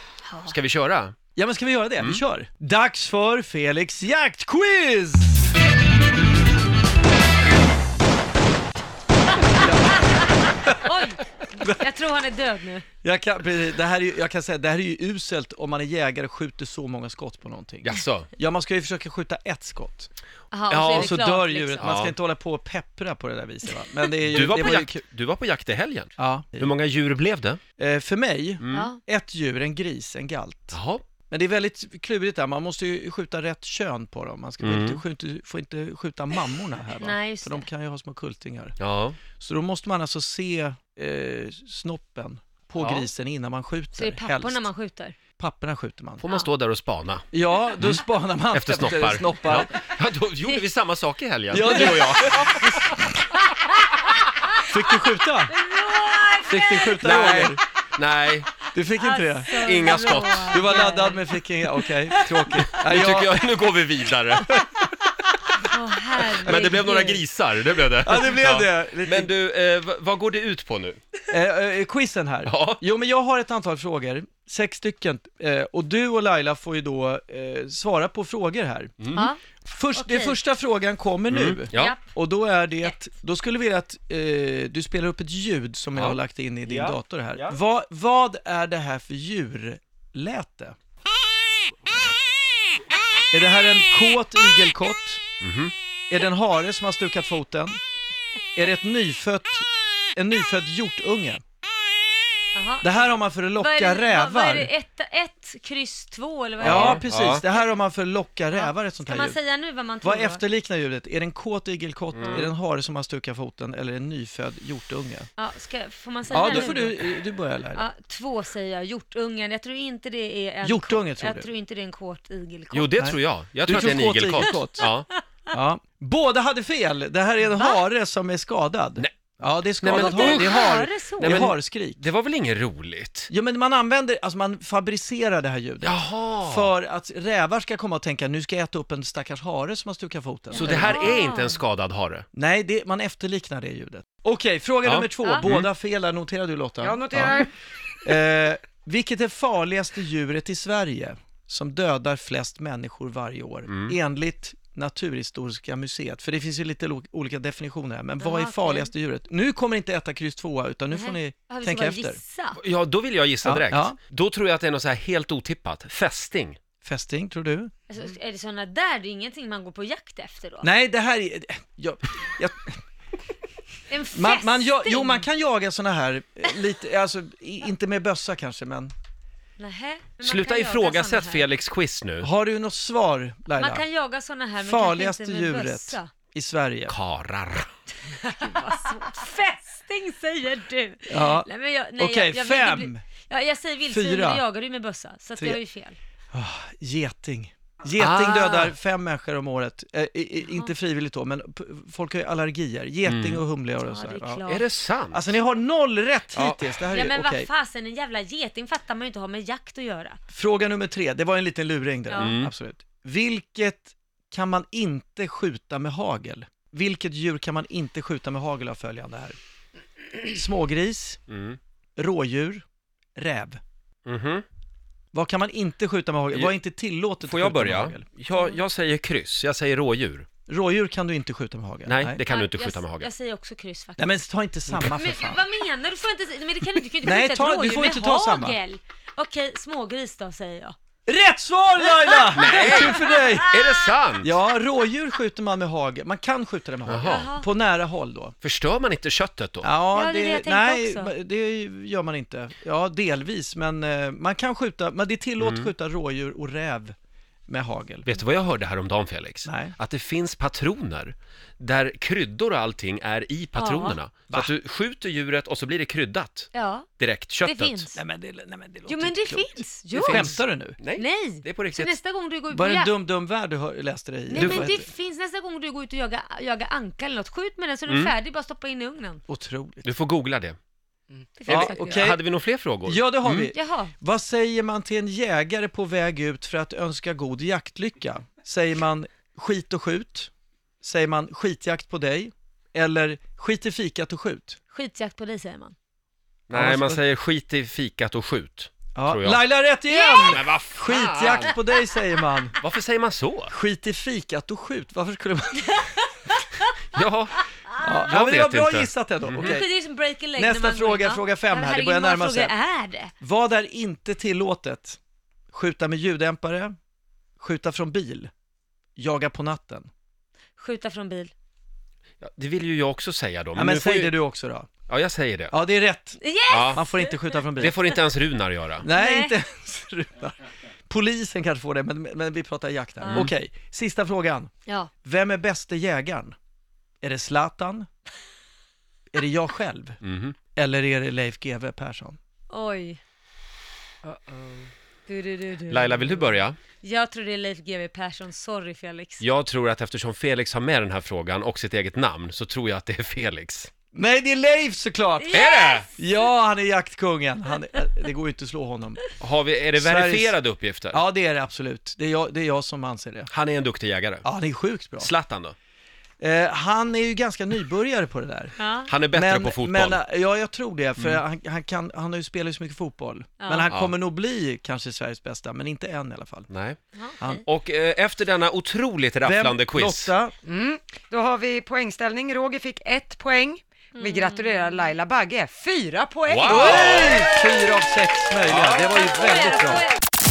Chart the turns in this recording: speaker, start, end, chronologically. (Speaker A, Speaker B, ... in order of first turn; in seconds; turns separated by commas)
Speaker A: 0.3-0.6, Speaker B: 0.5-1.1, Speaker C: 1.4-5.5, Speaker C: 9.5-10.8, Speaker A: 10.0-12.9, Speaker C: 13.0-20.1, Speaker B: 17.8-18.3, Speaker A: 20.5-21.9, Speaker B: 20.7-21.2, Speaker C: 20.9-25.0, Speaker B: 21.8-22.1, Speaker B: 24.3-27.6, Speaker C: 26.2-26.7, Speaker C: 27.8-38.8, Speaker B: 28.6-28.9, Speaker A: 28.7-29.0, Speaker B: 30.7-31.0, Speaker B: 34.6-35.0, Speaker A: 37.0-37.7, Speaker B: 38.8-39.2, Speaker C: 39.4-44.7, Speaker B: 42.8-43.1, Speaker A: 44.0-45.1, Speaker C: 45.4-46.2, Speaker B: 46.2-47.3, Speaker C: 47.3-49.7, Speaker B: 47.8-53.0, Speaker C: 51.5-52.5, Speaker C: 54.7-55.5, Speaker A: 55.5-57.3, Speaker C: 56.5-57.6, Speaker B: 57.0-58.5, Speaker C: 58.7-63.5, Speaker A: 59.0-61.8, Speaker B: 59.6-60.8, Speaker B: 62.5-64.5, Speaker A: 65.6-67.2, Speaker C: 66.3-66.7, Speaker B: 66.4-71.0, Speaker C: 68.0-69.3, Speaker C: 71.3-79.0, Speaker B: 72.5-72.8, Speaker B: 79.0-79.3, Speaker C: 79.7-90.8, Speaker A: 80.0-80.4, Speaker B: 81.3-82.0, Speaker A: 81.7-82.0, Speaker B: 86.0-87.6, Speaker C: 93.3-95.2, Speaker B: 95.4-95.7, Speaker C: 96.1-97.8, Speaker C: 98.6-101.4, Speaker A: 102.5-103.1, Speaker C: 102.8-104.7, Speaker A: 103.6-107.0, Speaker C: 106.6-109.4, Speaker B: 106.6-107.4, Speaker A: 108.5-110.4, Speaker C: 110.0-115.3, Speaker B: 112.2-112.5, Speaker A: 115.4-117.1, Speaker C: 116.3-117.8, Speaker A: 117.7-123.0, Speaker C: 120.6-121.5, Speaker B: 122.7-125.1, Speaker C: 123.0-124.9, Speaker A: 124.4-125.2, Speaker C: 125.5-132.0, Speaker A: 127.5-127.8, Speaker B: 129.8-130.6, Speaker A: 129.9-131.5, Speaker B: 131.2-133.3, Speaker C: 133.3-141.1, Speaker B: 135.8-136.7, Speaker A: 140.5-141.6, Speaker B: 140.6-142.3, Speaker C: 142.3-147.5, Speaker B: 144.8-145.7, Speaker A: 145.2-145.5, Speaker D: 146.8-147.5, Speaker A: 147.2-147.4, Speaker C: 148.0-162.2, Speaker B: 153.7-153.9, Speaker A: 158.2-158.9, Speaker A: 160.9-162.6, Speaker B: 162.6-166.6, Speaker C: 163.4-164.0, Speaker C: 166.8-167.7, Speaker A: 167.9-170.7, Speaker C: 170.6-172.8, Speaker A: 173.9-175.3, Speaker C: 174.1-178.9, Speaker A: 179.6-181.5, Speaker B: 180.2-182.3, Speaker C: 182.2-183.8, Speaker A: 183.6-186.1, Speaker C: 184.6-186.9, Speaker B: 186.9-187.7, Speaker A: 188.0-196.0, Speaker C: 191.1-193.1, Speaker C: 193.9-194.4, Speaker C: 196.3-204.4, Speaker B: 198.0-198.7, Speaker A: 200.5-200.7, Speaker B: 203.1-203.4, Speaker A: 203.8-204.7, Speaker B: 204.5-205.3, Speaker C: 205.1-207.5, Speaker B: 206.3-206.8, Speaker A: 206.9-210.2, Speaker C: 210.3-219.4, Speaker B: 212.2-212.5, Speaker C: 220.3-221.2, Speaker B: 221.3-221.6, Speaker C: 222.0-222.7, Speaker C: 223.2-223.6, Speaker B: 224.1-224.4, Speaker C: 225.1-228.1, Speaker B: 227.2-230.3, Speaker A: 228.3-228.6, Speaker C: 230.5-232.2, Speaker B: 231.9-233.1, Speaker A: 232.3-234.1, Speaker C: 234.0-235.4, Speaker A: 234.8-240.8, Speaker C: 237.0-238.6, Speaker C: 241.1-243.5, Speaker A: 241.8-243.9, Speaker B: 242.4-244.4, Speaker C: 244.2-248.3, Speaker B: 246.9-247.3, Speaker A: 247.0-247.5, Speaker B: 248.4-249.7, Speaker C: 249.6-256.9, Speaker A: 249.9-251.1, Speaker B: 255.4-255.7, Speaker C: 257.5-258.2, Speaker B: 258.1-267.9, Speaker C: 259.4-259.8, Speaker A: 263.6-264.0, Speaker A: 266.5-266.9, Speaker A: 267.4-268.0, Speaker C: 268.0-270.8, Speaker A: 268.9-270.3, Speaker B: 269.9-271.9, Speaker A: 271.0-272.9, Speaker C: 272.5-274.9, Speaker A: 274.3-279.2, Speaker B: 274.4-274.7, Speaker B: 277.9-278.1, Speaker C: 279.3-279.9, Speaker B: 279.8-280.6, Speaker A: 281.4-282.1, Speaker B: 281.5-283.5, Speaker C: 281.5-282.2, Speaker C: 282.9-290.3, Speaker A: 283.5-283.9, Speaker C: 290.8-294.6, Speaker A: 294.7-295.8, Speaker B: 296.5-299.4, Speaker C: 296.5-297.0, Speaker C: 298.9-302.6, Speaker A: 299.9-300.4, Speaker B: 300.2-301.6, Speaker B: 302.6-303.5, Speaker C: 303.5-305.9, Speaker A: 305.7-306.7, Speaker B: 306.9-309.5, Speaker C: 307.8-309.7, Speaker A: 309.4-313.1, Speaker C: 310.4-312.5, Speaker C: 313.2-315.0, Speaker C: 315.5-316.7, Speaker C: 317.4-318.3, Speaker C: 319.0-319.9, Speaker A: 320.6-321.3, Speaker B: 322.2-324.1, Speaker C: 323.6-324.7, Speaker B: 324.9-325.5, Speaker C: 325.5-326.2, Speaker A: 326.2-327.4, Speaker B: 326.5-326.8, Speaker C: 326.7-327.8, Speaker B: 327.6-328.9, Speaker C: 328.8-334.5, Speaker A: 328.9-329.4, Speaker A: 333.0-333.3, Speaker C: 335.0-336.4, Speaker C: 337.0-337.9, Speaker C: 339.1-340.0, Speaker B: 340.0-340.4, Speaker C: 340.6-342.2, Speaker A: 342.5-343.0, Speaker A: 345.1-349.2, Speaker B: 345.7-346.6, Speaker B: 349.2-353.7, Speaker C: 353.9-355.4, Speaker A: 355.2-356.1, Speaker B: 355.3-355.9, Speaker C: 356.0-359.0, Speaker B: 359.2-361.0, Speaker C: 359.8-360.4, Speaker C: 360.9-363.3, Speaker B: 363.3-364.3, Speaker C: 364.2-365.1, Speaker B: 365.0-365.6, Speaker C: 366.2-368.6, Speaker A: 368.6-368.9, Speaker B: 368.9-370.0, Speaker C: 369.1-376.5, Speaker A: 373.4-373.7, Speaker B: 376.5-376.8, Speaker A: 376.9-377.3, Speaker B: 377.4-380.1, Speaker C: 379.2-380.3, Speaker D: 380.4-387.0, Speaker A: 384.0-384.9, Speaker B: 386.3-387.2, Speaker C: 386.4-389.9, Speaker A: 388.7-390.0